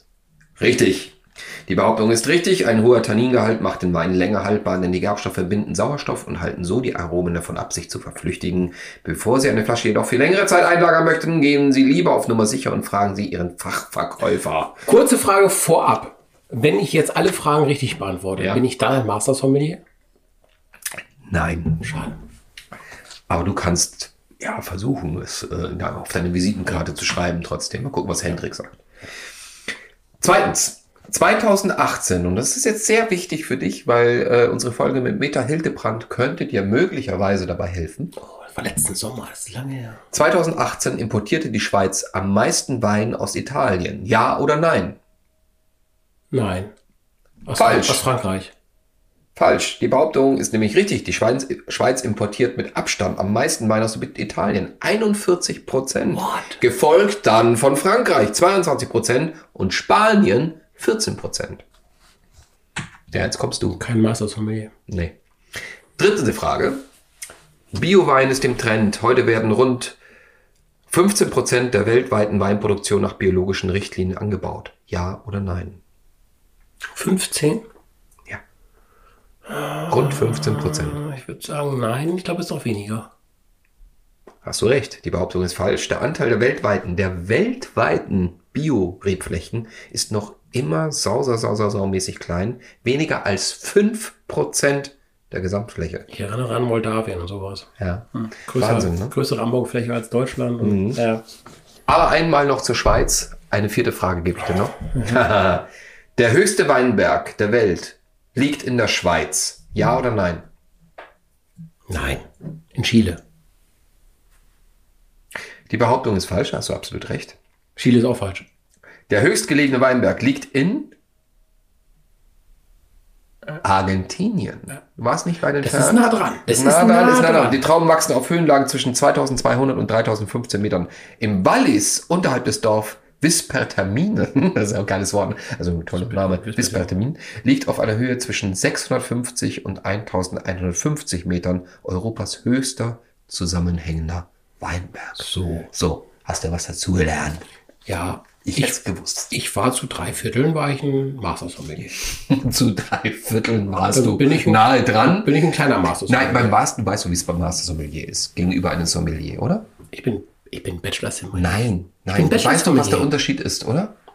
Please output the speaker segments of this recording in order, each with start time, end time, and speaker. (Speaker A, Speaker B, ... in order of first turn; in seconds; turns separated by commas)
Speaker A: 0.6-14.8, Speaker B: 14.8-19.8, Speaker A: 18.4-18.6, Speaker A: 21.2-21.8, Speaker B: 21.8-22.2, Speaker A: 23.3-28.8, Speaker A: 30.2-38.1, Speaker B: 38.2-40.0, Speaker A: 40.1-45.0, Speaker B: 46.3-46.7, Speaker B: 47.5-48.5, Speaker A: 47.5-48.0, Speaker A: 49.4-61.6, Speaker B: 56.1-56.6, Speaker A: 63.1-63.8, Speaker B: 63.8-64.7, Speaker A: 64.9-65.2, Speaker A: 66.0-66.8, Speaker A: 67.7-70.0, Speaker A: 70.9-75.8, Speaker B: 76.9-77.6, Speaker B: 79.5-83.1, Speaker A: 79.9-81.0, Speaker A: 84.4-96.1, Speaker B: 96.1-101.2, Speaker A: 97.8-99.1, Speaker A: 100.6-101.0, Speaker A: 101.9-110.5, Speaker B: 111.9-113.2, Speaker A: 115.7-117.4, Speaker B: 117.8-118.5, Speaker A: 119.1-120.9, Speaker A: 123.6-147.4, Speaker B: 125.6-127.7, Speaker B: 135.9-136.9, Speaker B: 145.2-145.7, Speaker B: 147.8-151.9, Speaker A: 148.4-149.3, Speaker A: 151.8-155.4, Speaker B: 153.9-156.5, Speaker A: 156.1-159.7, Speaker B: 159.9-163.1, Speaker A: 161.3-163.9